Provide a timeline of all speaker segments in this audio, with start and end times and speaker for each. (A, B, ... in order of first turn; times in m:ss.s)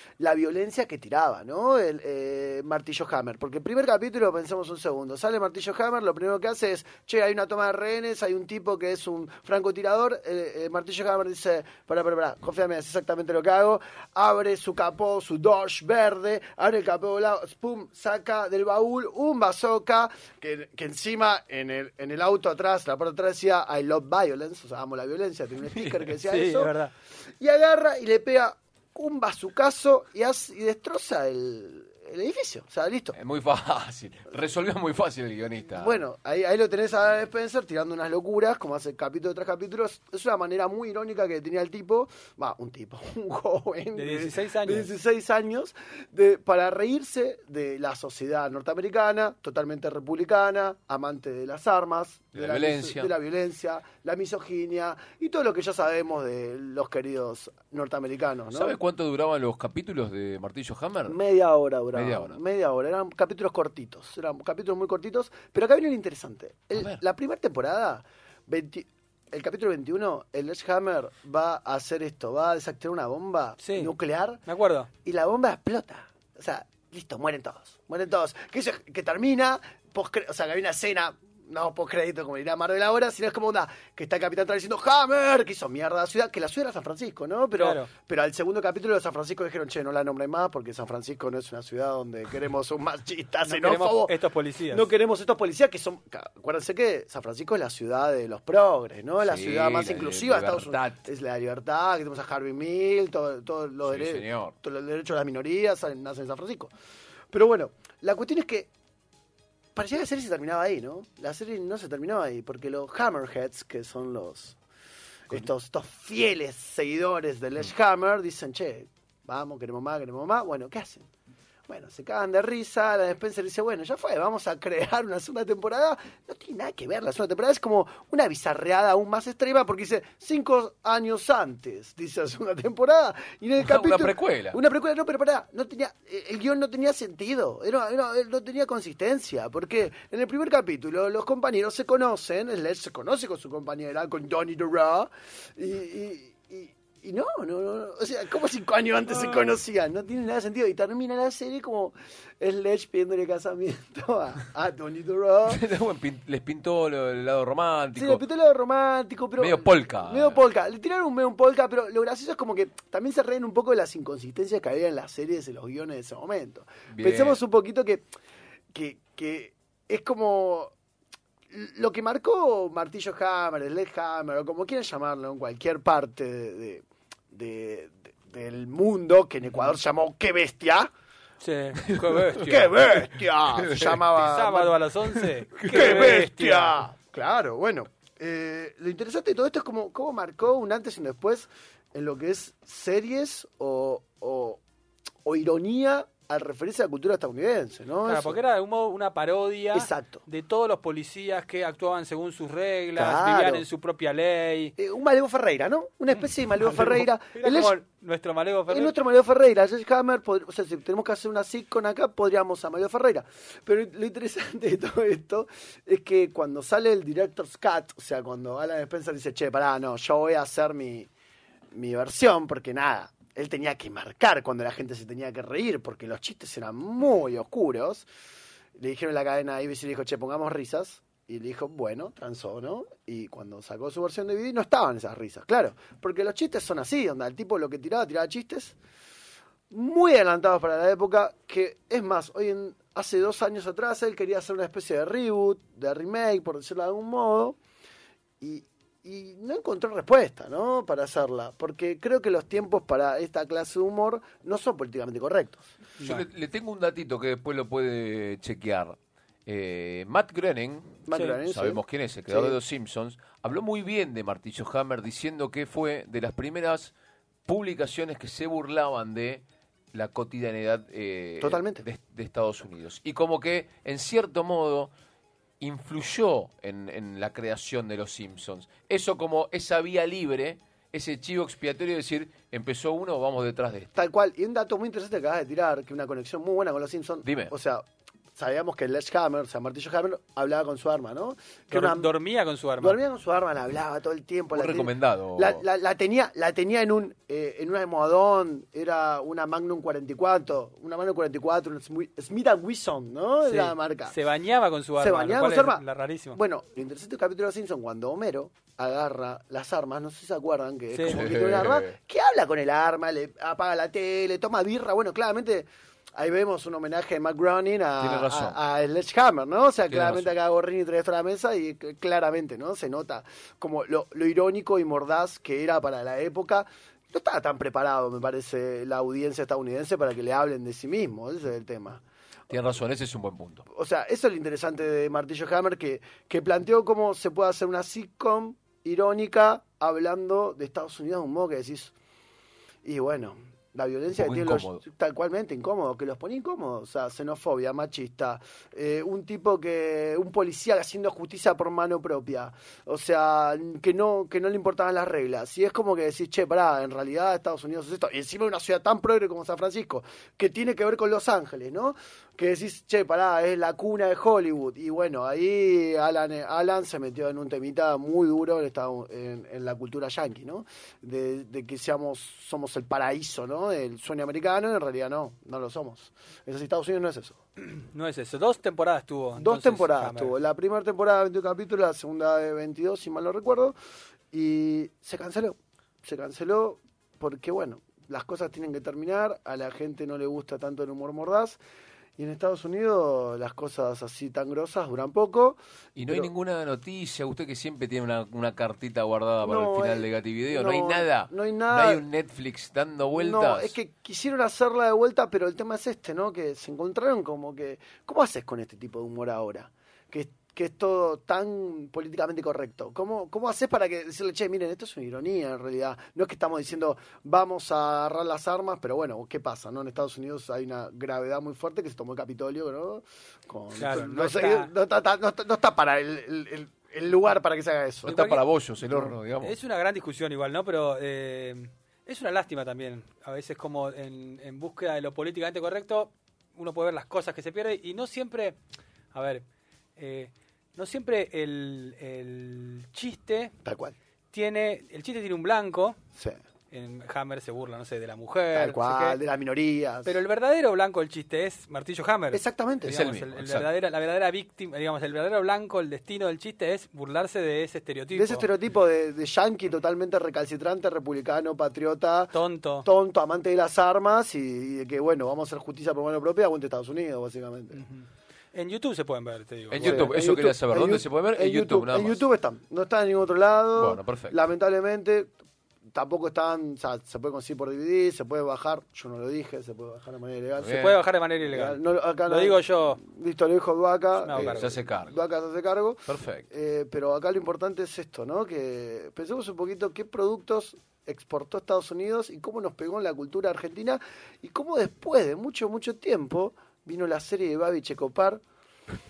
0:00.2-0:26.7 A
0:25.8-0:26.0 B
0:26.2-0:26.9 C
0:27.4-0:33.2 A
0:33.1-0:36.0 B
0:35.8-0:58.8 A
0:44.0-0:44.9 C
0:52.3-0:53.1 B
0:58.5-1:01.2 B
1:01.1-1:14.4 A
1:01.9-1:02.4 B
1:13.6-1:13.9 C
1:14.5-1:14.9 C
1:15.0-1:34.1 A
1:27.5-1:27.9 C
1:33.4-1:34.9 C
1:34.7-1:46.7 A
1:39.2-1:41.0 B
1:43.8-1:44.5 B
1:47.3-1:48.7 A
1:49.8-1:54.6 A
1:55.3-2:01.1 A
2:01.7-2:35.6 A
2:13.6-2:14.6 B
2:29.1-2:29.5 C
2:35.5-2:38.2 B
2:37.9-2:48.1 A
2:39.4-2:40.4 B
2:46.9-2:47.4 B
2:48.7-2:50.7 A
2:51.5-3:00.9 A
3:01.4-3:02.6 C
3:01.8-3:04.1 B
3:02.4-3:04.8 A
3:04.2-3:06.8 C
3:05.1-3:06.2 B
3:05.7-3:14.6 A
3:15.2-3:18.4 A
3:18.0-3:24.8 C
3:19.7-3:20.2 A
3:23.0-3:23.6 A
3:24.8-3:27.8 A
3:26.5-3:29.0 C
3:28.7-3:41.1 A
3:41.7-3:48.1 A
3:48.8-3:58.8 A
3:59.7-4:07.6 A
4:08.4-4:15.7 A
4:16.0-4:16.3 C
4:16.0-4:26.9 B
4:21.1-4:22.6 A
4:21.1-4:21.4 C
4:27.5-4:34.9 B
4:31.4-4:31.9 A
4:35.6-4:43.9 B
4:44.0-4:52.1 A
4:47.2-4:47.5 B
4:51.7-4:53.0 C
4:52.8-5:04.2 A
4:54.5-4:55.6 B
5:03.4-5:06.4 C
5:05.0-5:05.8 A
5:06.3-5:32.0 A
5:10.9-5:11.3 C
5:11.1-5:12.0 B
5:18.0-5:18.6 B
5:19.9-5:20.3 B
5:32.5-5:33.6 B
5:33.7-5:41.9 A
5:42.8-6:17.4 A
5:44.1-5:44.8 B
6:17.6-6:20.4 C
6:19.4-6:23.8 A
6:24.3-6:31.6 A
6:32.2-6:36.3 A
6:36.0-6:43.8 B
6:39.4-6:42.1 A
6:43.1-7:08.2 A
7:03.8-7:04.7 C
7:08.0-7:18.6 C
7:08.1-7:09.6 B
7:19.1-7:19.4 C
7:20.0-7:23.5 C
7:23.6-7:24.0 A
7:24.3-7:26.0 C
7:26.7-7:29.2 C
7:28.5-7:30.1 A
7:30.0-7:38.5 C
7:32.3-7:33.0 A
7:32.9-7:33.7 B
7:38.1-7:42.3 A
7:42.3-7:42.9 C
7:42.8-7:47.8 A
7:47.8-7:50.2 C
7:49.7-7:52.2 B
7:49.8-7:55.3 A
7:53.8-7:54.4 B
7:55.9-8:00.9 A
8:00.6-8:01.0 B
8:00.7-8:03.0 C
8:01.4-8:18.4 A
8:04.2-8:04.8 C
8:04.3-8:05.2 B
8:06.1-8:06.5 B